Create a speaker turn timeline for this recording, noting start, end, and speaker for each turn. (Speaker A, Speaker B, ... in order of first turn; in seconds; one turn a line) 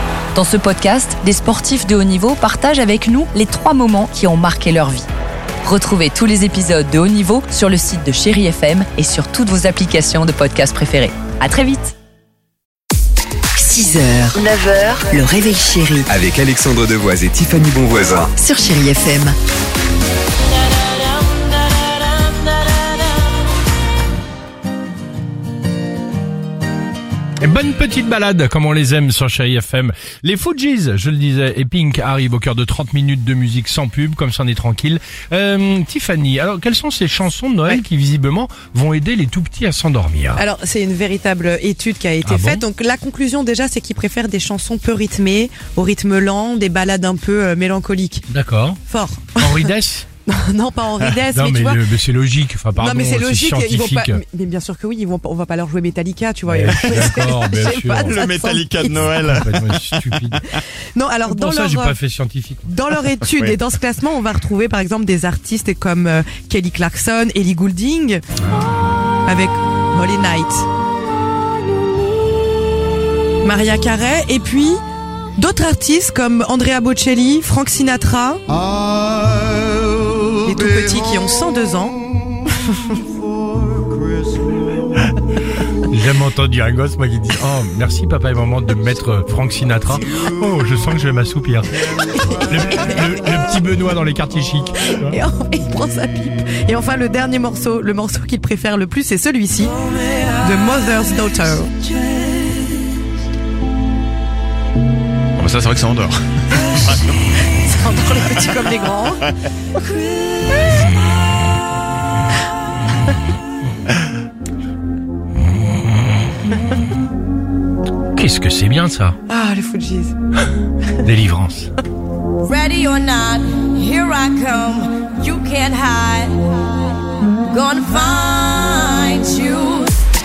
Speaker A: 0.3-5.1
Speaker A: 5.6-11.9
Speaker B: 13.5-16.1
Speaker C: 16.1-18.3
Speaker B: 18.4-19.4
Speaker D: 27.4-40.4
Speaker E: 40.4-48.3
Speaker D: 42.2-42.6
Speaker D: 48.3-48.8
Speaker E: 48.9-49.7
Speaker D: 49.4-50.1
Speaker E: 50.3-51.9
Speaker D: 51.3-54.2
Speaker E: 52.8-59.1
Speaker D: 56.5-58.2
Speaker F: 56.7-57.2
Speaker F: 58.0-60.2
Speaker D: 59.0-60.4
Speaker E: 60.9-62.0
Speaker D: 61.3-62.8
Speaker E: 62.6-68.2
Speaker F: 63.2-63.6
Speaker D: 68.5-68.9
Speaker E: 69.2-70.7
Speaker E: 73.4-74.8
Speaker E: 75.4-78.4
Speaker E: 80.4-83.0
Speaker D: 85.9-95.2
Speaker E: 92.2-93.2
Speaker E: 95.0-99.8
Speaker E: 100.4-101.9
Speaker F: 105.4-107.0
Speaker E: 107.5-109.3
Speaker D: 118.1-119.2
Speaker E: 119.3-120.1
Speaker D: 121.0-121.7
Speaker G: 122.4-127.0
Speaker G: 127.5-129.9